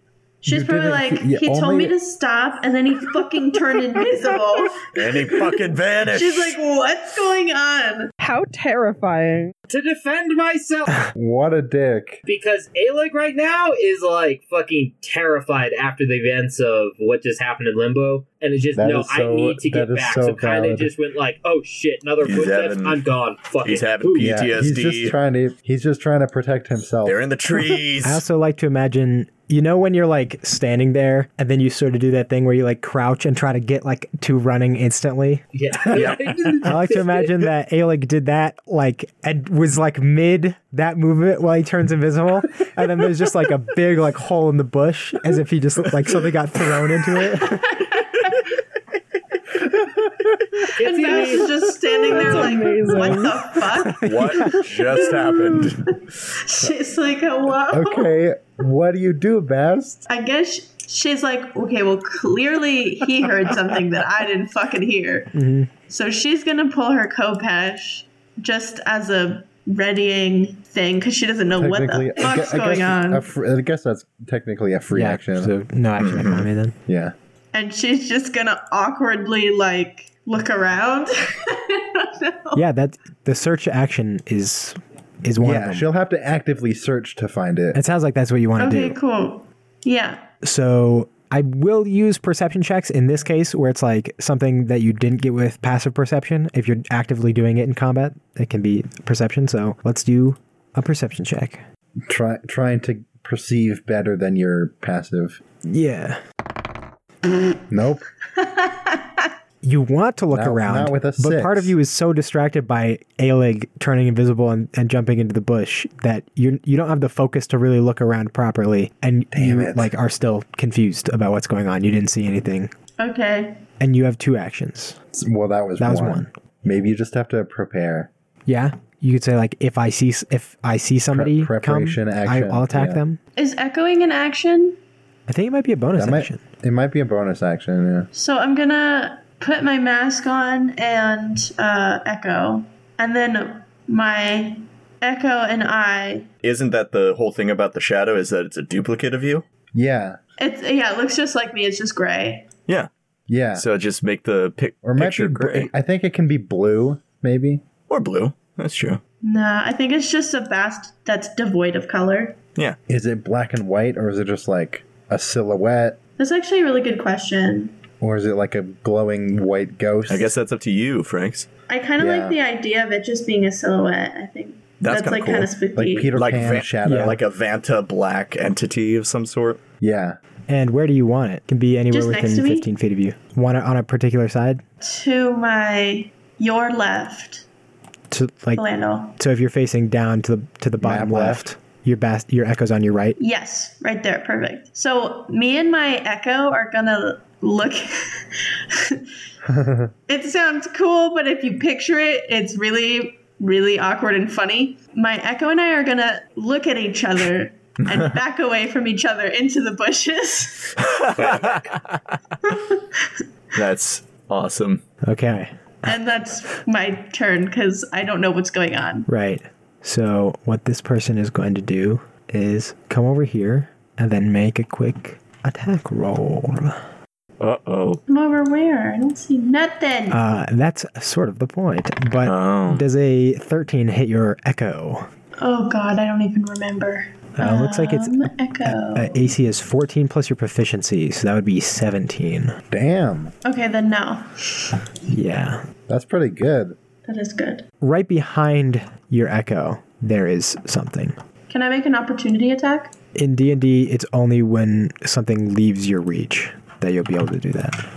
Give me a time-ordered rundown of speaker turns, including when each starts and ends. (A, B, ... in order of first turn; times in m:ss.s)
0:00.4-0:08.1 A
0:00.4-0:01.9 B
0:04.9-0:06.6 C
0:08.2-0:09.5 D
0:09.7-0:11.0 E
0:11.1-0:12.2 B
0:12.2-0:24.4 E
0:18.7-0:20.9 B
0:22.2-0:23.0 C
0:23.6-0:25.1 C
0:24.2-0:27.8 B
0:27.0-0:28.2 C
0:28.0-0:35.4 F
0:35.5-0:37.3 E
0:36.0-0:36.3 C
0:36.6-0:47.8 F
0:49.8-0:50.4 B
0:50.8-0:51.5 E
0:50.8-0:55.7 A
0:52.0-0:53.5 D
0:52.1-0:52.6 E
0:53.8-0:54.6 F
0:54.0-0:55.9 C
0:56.2-0:58.1 A
0:57.7-1:00.0 B
1:00.1-1:05.3 A
1:05.3-1:05.7 F
1:05.9-1:13.2 A
1:11.5-1:15.5 B
1:14.9-1:16.7 F
1:16.0-1:16.5 C
1:16.8-1:17.1 B
1:17.5-1:22.6 A
1:22.5-1:25.9 F
1:25.4-1:27.8 B
1:27.7-1:29.0 F
1:28.6-1:30.2 A
1:30.4-1:41.6 F
1:42.0-1:45.4 B
1:45.6-1:46.2 F
1:47.7-1:48.0 B
1:48.4-1:49.3 A
1:49.6-2:02.7 F
1:50.3-1:51.7 B
1:59.3-1:59.9 B
2:03.0-2:03.6 A
2:03.8-2:05.0 F
2:05.1-2:08.1 B
2:05.8-2:06.3 F
2:08.5-2:13.2 F
2:11.1-2:13.0 B
2:13.4-2:14.8 A
2:15.3-2:16.4 F
2:16.0-2:18.1 B
2:18.1-2:26.3 A
2:26.4-2:29.4 C
2:29.7-2:30.2 B
2:30.4-2:32.5 A
2:33.3-2:33.6 B
2:33.5-2:35.7 C
2:34.8-2:37.6 B
2:37.9-2:39.0 C
2:39.2-2:42.4 A
2:42.9-2:46.0 B
2:46.2-2:47.8 A
2:48.0-2:50.3 B
2:50.1-2:51.5 C
2:51.7-2:56.1 A
2:52.0-2:52.4 B
2:54.8-2:55.5 C
2:55.7-2:57.2 B
2:56.1-2:59.6 C
2:56.8-2:57.2 F
2:59.8-3:00.2 B
3:00.5-3:04.6 F
3:01.9-3:02.7 A
3:04.8-3:07.4 A
3:08.1-3:08.6 F
3:08.5-3:09.2 A
3:09.2-3:13.2 F
3:10.8-3:11.5 B
3:13.2-3:19.0 A
3:19.5-3:19.9 B
3:20.1-3:30.8 A
3:30.8-3:32.2 C
3:31.2-3:31.8 E
3:32.4-3:33.2 A
3:33.6-3:34.8 C
3:35.0-3:35.5 F
3:35.8-3:39.1 A
3:39.1-3:46.8 F
3:47.4-3:48.0 C
3:48.1-3:50.2 A
3:50.1-3:55.1 F
3:52.2-3:52.8 C
3:55.4-3:59.3 A
3:57.4-4:02.5 F
4:02.7-4:03.3 B
4:03.4-4:04.7 A
4:05.1-4:05.6 F
4:05.9-4:06.8 B
4:07.0-4:07.6 A
4:07.8-4:11.2 F
4:11.5-4:12.9 A
4:13.1-4:17.8 F